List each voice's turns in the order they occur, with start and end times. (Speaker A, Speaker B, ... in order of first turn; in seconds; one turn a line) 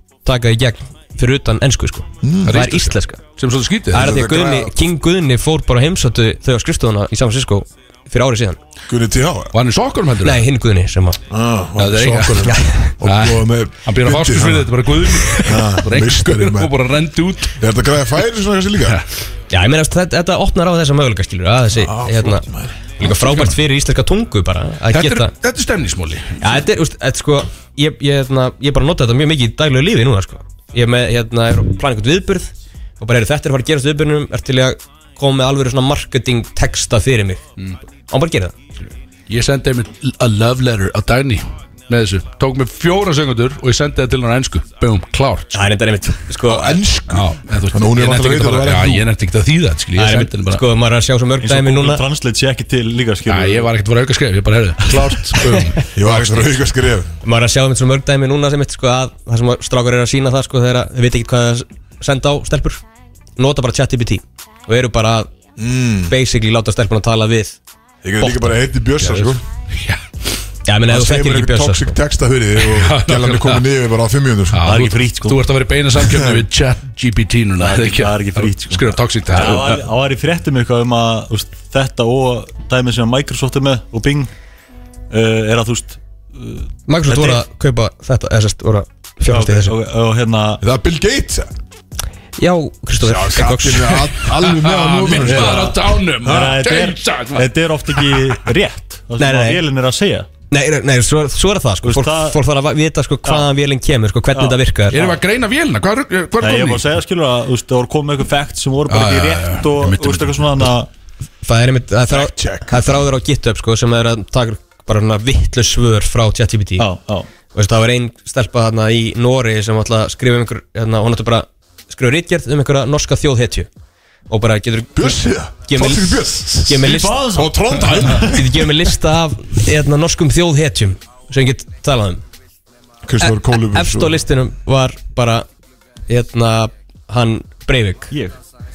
Speaker A: 0.2-3.2
Speaker B: 2.2-2.7
Speaker C: 2.5-4.1
Speaker A: 3.9-8.6
Speaker B: 3.9-4.7
Speaker B: 8.9-9.5
Speaker C: 9.5-10.5
Speaker A: 10.2-11.2
Speaker B: 11.3-16.7
Speaker C: 11.8-17.6
Speaker A: 12.5-12.9
Speaker B: 17.6-19.0
Speaker A: 19.5-22.4
Speaker B: 21.7-22.9
Speaker A: 23.0-25.3
Speaker C: 23.0-23.6
Speaker C: 24.9-26.7
Speaker A: 26.4-37.4
Speaker A: 38.1-38.5
Speaker C: 39.3-45.7
Speaker A: 45.5-46.8
Speaker B: 46.4-49.1
Speaker C: 47.1-50.6
Speaker A: 50.0-52.0
Speaker D: 51.4-53.7
Speaker C: 53.3-56.5
Speaker D: 55.0-55.6
Speaker B: 55.8-57.1
Speaker A: 57.2-62.8
Speaker A: 63.4-65.3
Speaker B: 65.6-66.1
Speaker A: 66.1-67.6
Speaker B: 68.0-69.4
Speaker A: 68.2-68.6
Speaker C: 69.8-70.0
Speaker A: 70.7-72.0
Speaker B: 70.9-74.7
Speaker C: 72.6-73.7
Speaker C: 74.5-79.8
Speaker D: 74.7-75.4
Speaker B: 76.0-76.5
Speaker D: 77.6-84.3
Speaker D: 85.1-87.4
Speaker A: 86.9-89.8
Speaker D: 89.3-90.6
Speaker B: 90.6-91.5
Speaker A: 92.4-94.2
Speaker B: 93.0-96.7
Speaker C: 94.4-98.3
Speaker D: 95.2-100.3
Speaker A: 99.2-99.6
Speaker A: 100.5-105.0
Speaker D: 101.8-102.4
Speaker D: 104.3-105.2
Speaker C: 104.9-106.8
Speaker D: 106.4-110.9
Speaker C: 108.9-110.7
Speaker A: 111.4-116.9
Speaker B: 112.1-113.0
Speaker D: 116.8-117.3
Speaker A: 117.5-123.7
Speaker A: 124.3-127.2
Speaker B: 125.0-128.7
Speaker D: 126.8-128.3
Speaker A: 128.2-132.2
Speaker B: 133.0-134.2
Speaker A: 133.2-135.5
Speaker A: 136.1-138.1
Speaker D: 138.1-138.4